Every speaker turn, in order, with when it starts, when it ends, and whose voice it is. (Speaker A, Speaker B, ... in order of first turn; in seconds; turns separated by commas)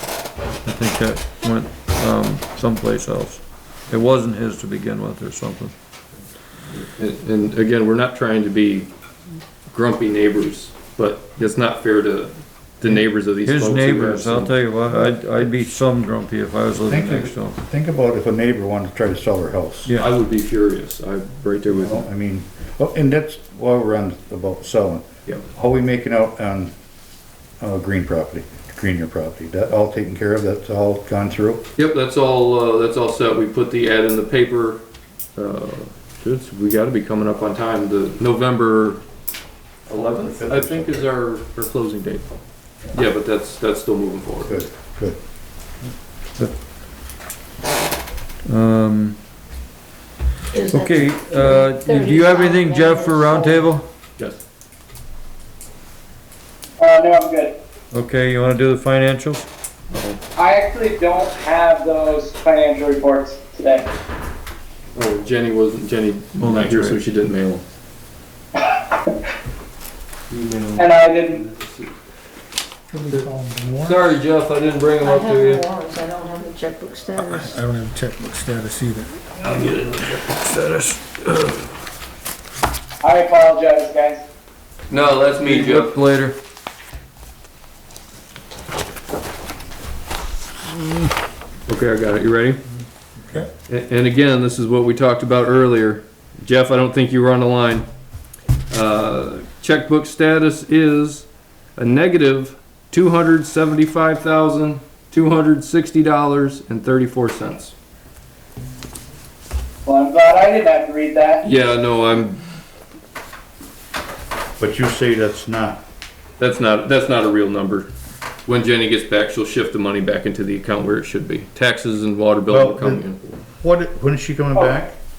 Speaker A: 0.6-5.7, Speaker B: 6.7-8.9, Speaker B: 9.7-14.6, Speaker A: 13.4-17.6, Speaker C: 16.9-19.9, Speaker B: 19.9-22.1, Speaker C: 21.7-26.7, Speaker C: 27.6-31.6, Speaker B: 31.8-34.8, Speaker B: 35.4-39.0, Speaker B: 39.9-42.3, Speaker C: 39.9-41.1, Speaker B: 42.9-44.6, Speaker C: 44.4-45.2, Speaker A: 48.5-49.2, Speaker D: 50.5-53.7, Speaker A: 50.6-53.9, Speaker E: 56.8-57.5, Speaker A: 57.9-59.5, Speaker B: 59.9-60.2, Speaker E: 60.4-63.9, Speaker B: 64.9-67.6, Speaker A: 66.4-67.0, Speaker B: 70.3-71.9, Speaker E: 70.8-71.4, Speaker F: 72.9-73.7, Speaker B: 73.8-75.6, Speaker A: 73.8-74.6, Speaker D: 75.0-77.5, Speaker A: 75.2-75.6, Speaker F: 77.4-79.2, Speaker A: 79.3-81.7, Speaker E: 83.0-84.2, Speaker B: 84.9-85.9, Speaker A: 84.9-86.3, Speaker B: 91.7-92.6, Speaker B: 93.7-97.9, Speaker B: 98.7-107.7, Speaker E: 109.8-111.4, Speaker B: 111.4-112.4, Speaker C: 114.6-115.8, Speaker B: 116.4-117.9, Speaker B: 118.5-123.2, Speaker C: 122.5-123.1, Speaker C: 123.6-124.9